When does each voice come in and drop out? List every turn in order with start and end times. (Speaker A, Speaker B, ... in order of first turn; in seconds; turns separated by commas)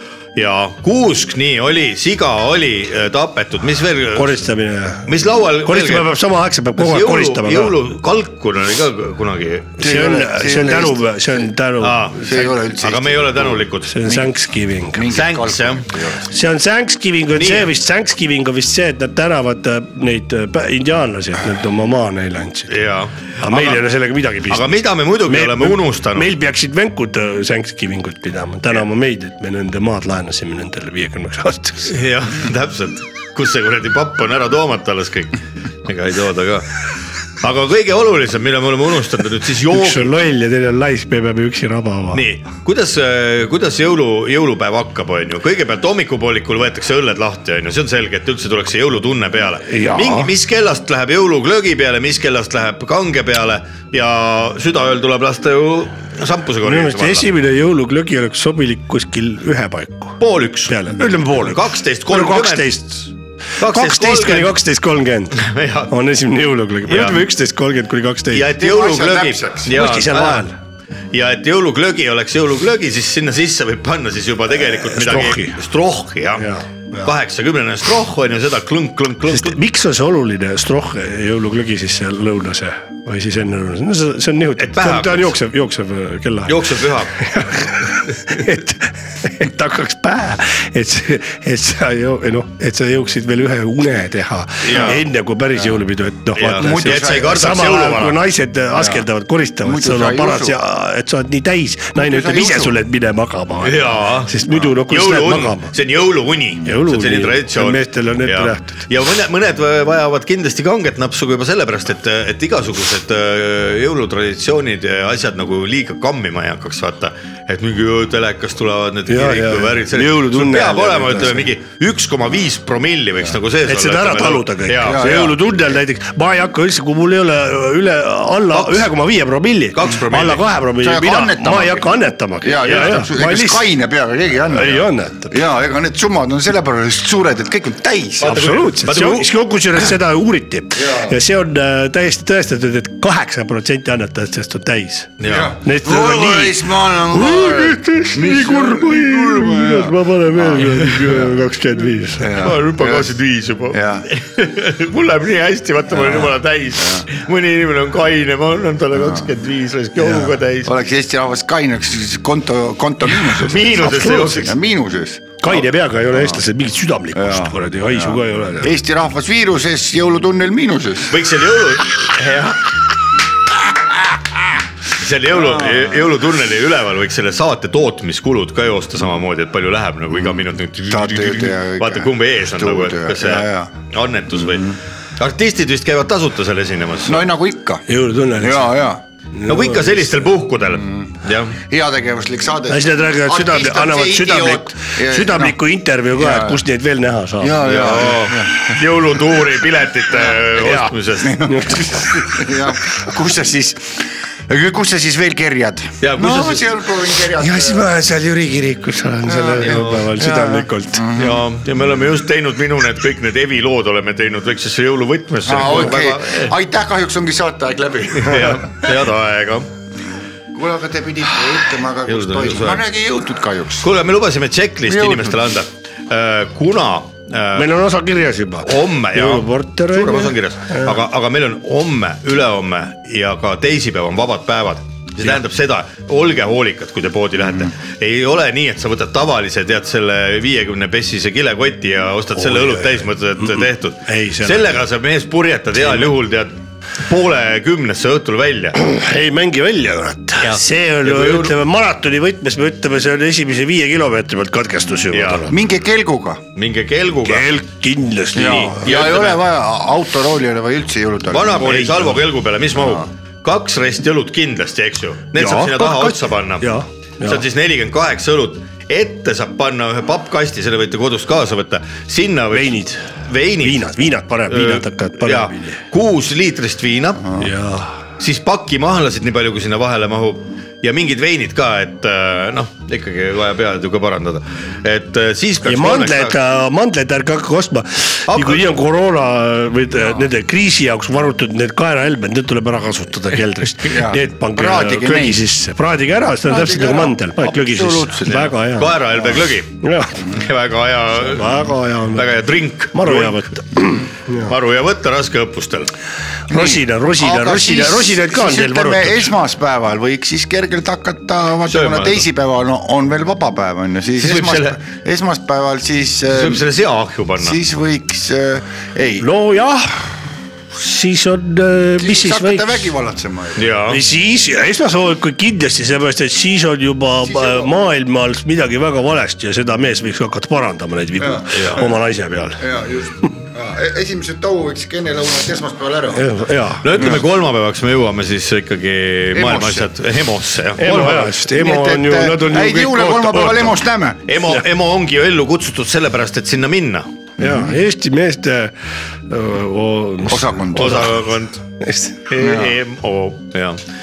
Speaker A: 0.4-4.4, Speaker B: 4.2-5.1, Speaker A: 5.1-6.1, Speaker B: 5.6-7.8, Speaker A: 6.8-9.8, Speaker C: 9.8-11.4, Speaker B: 9.8-12.4, Speaker A: 11.8-13.9, Speaker C: 12.2-14.4, Speaker B: 13.9-15.1, Speaker C: 14.9-16.3, Speaker A: 15.1-15.9, Speaker B: 16.3-22.7, Speaker A: 17.4-17.7, Speaker A: 22.7-23.8, Speaker B: 23.4-31.9, Speaker A: 24.5-26.3, Speaker A: 31.9-36.8, Speaker A: 37.4-40.1, Speaker B: 39.7-42.2, Speaker A: 42.1-57.3, Speaker B: 49.6-50.3, Speaker B: 56.6-68.5, Speaker A: 60.2-62.7, Speaker A: 63.6-64.6, Speaker A: 65.3-65.9, Speaker A: 66.9-67.3, Speaker A: 68.3-70.5, Speaker C: 68.5-69.8, Speaker B: 69.7-70.6, Speaker A: 71.1-76.5, Speaker B: 74.6-75.6, Speaker B: 76.4-77.1, Speaker A: 77.0-79.6, Speaker B: 79.3-105.7, Speaker A: 84.6-85.4, Speaker A: 86.5-87.7, Speaker A: 94.6-95.0, Speaker C: 94.7-95.0, Speaker A: 96.4-98.2, Speaker C: 96.5-97.6, Speaker C: 98.8-99.0, Speaker C: 99.6-100.6, Speaker C: 102.0-102.8, Speaker A: 103.6-125.0, Speaker B: 106.7-108.8, Speaker B: 119.1-121.5, Speaker B: 123.7-133.7, Speaker C: 124.8-125.5, Speaker A: 128.5-128.9, Speaker A: 129.7-130.4, Speaker C: 130.8-138.4, Speaker A: 132.6-133.0, Speaker B: 134.5-135.4, Speaker A: 138.2-139.3, Speaker B: 138.2-152.4, Speaker C: 140.8-141.2, Speaker A: 145.2-145.5, Speaker C: 145.2-151.3, Speaker C: 152.2-153.1, Speaker A: 152.4-160.7, Speaker C: 153.7-154.1, Speaker C: 155.9-157.1, Speaker C: 158.9-159.3, Speaker C: 160.0-166.4, Speaker A: 163.2-164.6, Speaker B: 165.4-168.7, Speaker C: 167.1-171.2, Speaker A: 171.1-172.6, Speaker A: 174.9-187.3, Speaker C: 175.3-176.0, Speaker C: 180.1-183.7, Speaker C: 184.3-184.8, Speaker C: 187.1-189.0, Speaker B: 187.9-188.8, Speaker B: 189.4-190.1, Speaker A: 189.5-191.6, Speaker C: 190.7-195.6, Speaker B: 192.7-198.0, Speaker C: 196.1-196.6, Speaker C: 197.4-198.9, Speaker A: 197.7-201.4, Speaker C: 200.1-207.9, Speaker B: 201.4-202.4, Speaker A: 206.0-206.7, Speaker B: 207.4-211.1, Speaker C: 209.3-211.5, Speaker A: 209.6-210.1, Speaker A: 211.2-216.6, Speaker C: 215.5-219.0, Speaker A: 218.2-219.7, Speaker C: 220.5-223.9, Speaker A: 222.1-222.8, Speaker A: 223.8-227.7, Speaker C: 224.8-225.4, Speaker B: 227.6-230.9, Speaker A: 228.6-248.8, Speaker B: 242.3-244.8, Speaker B: 248.8-255.6, Speaker A: 250.4-251.6, Speaker A: 255.1-255.5, Speaker C: 255.5-256.4, Speaker A: 256.6-257.5, Speaker B: 257.2-258.9, Speaker C: 258.4-262.2, Speaker A: 258.4-259.4, Speaker A: 261.3-273.9, Speaker C: 262.7-263.1, Speaker B: 265.4-267.4, Speaker B: 272.5-273.0, Speaker B: 273.6-275.8, Speaker A: 274.5-277.4, Speaker B: 277.4-278.0, Speaker A: 278.2-286.4, Speaker B: 285.6-299.0, Speaker A: 288.3-288.6, Speaker C: 293.8-295.4, Speaker C: 296.5-298.5, Speaker A: 298.3-305.9, Speaker C: 299.1-299.4, Speaker B: 299.8-300.2, Speaker B: 301.2-302.3, Speaker B: 302.9-304.5, Speaker B: 306.5-309.3, Speaker C: 306.5-316.6, Speaker A: 311.7-312.2, Speaker A: 314.2-314.8, Speaker A: 316.3-317.6, Speaker C: 317.4-319.3, Speaker B: 319.2-320.0, Speaker B: 320.7-322.9, Speaker C: 322.0-323.7, Speaker A: 323.6-324.0, Speaker B: 323.9-332.6, Speaker C: 327.2-327.8, Speaker C: 331.2-331.7, Speaker A: 331.5-331.8, Speaker C: 332.6-336.4, Speaker B: 336.1-336.9, Speaker A: 336.8-341.3, Speaker C: 339.4-339.9, Speaker B: 340.8-343.8, Speaker C: 341.0-344.2, Speaker A: 344.3-347.1, Speaker B: 347.4-348.7, Speaker C: 347.4-347.8, Speaker B: 349.3-351.2, Speaker C: 350.3-351.1, Speaker A: 350.8-351.6, Speaker B: 351.8-352.2, Speaker A: 352.3-353.8, Speaker C: 352.4-352.8